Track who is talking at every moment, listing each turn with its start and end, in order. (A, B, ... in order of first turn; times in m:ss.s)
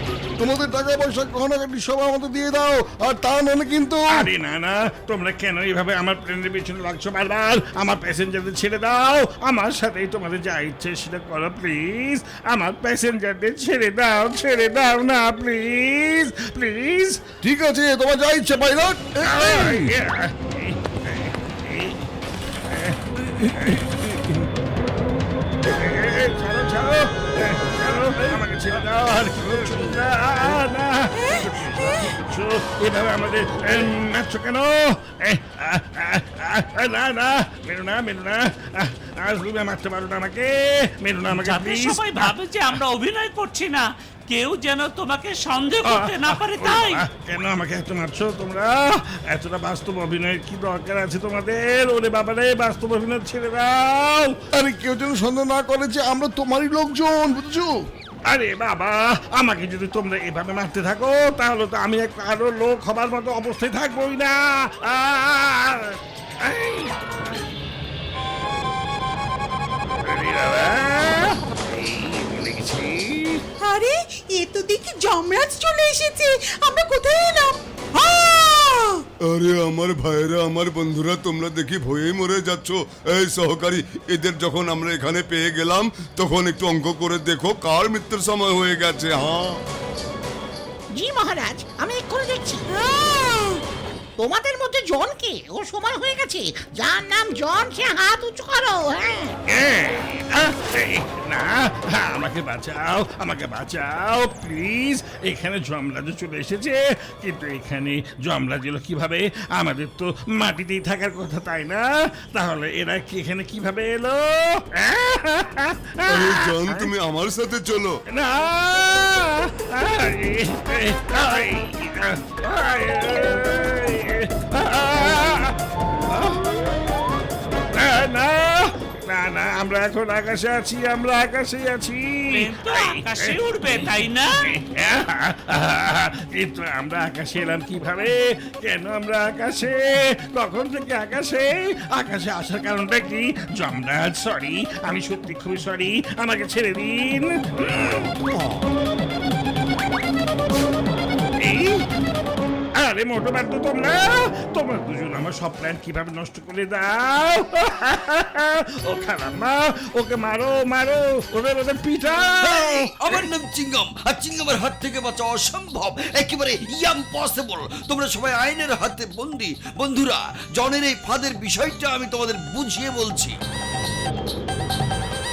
0:00.4-0:04.3 A
0:04.1-0:17.2 B
0:17.4-0:19.9 A
0:19.2-0:22.0 B
0:22.6-0:23.9 B
0:23.7-0:23.9 A
0:25.6-0:42.3 B
0:31.1-0:32.1 C
0:41.3-0:47.0 D
0:45.8-0:54.4 B
0:54.5-0:57.8 A
0:58.3-1:06.9 B
1:10.0-1:13.4 B
1:13.6-1:19.0 C
1:19.3-1:29.6 E
1:30.9-1:32.6 F
1:32.7-1:33.6 C
1:34.2-1:39.3 F
1:39.5-1:56.9 B
1:56.1-1:58.0 E
1:58.1-2:05.6 B
2:06.1-2:06.6 B
2:07.7-2:13.3 B
2:12.3-2:14.4 D
2:14.4-2:28.1 B
2:31.4-2:31.8 B
2:32.8-2:42.9 B
2:42.4-2:53.4 G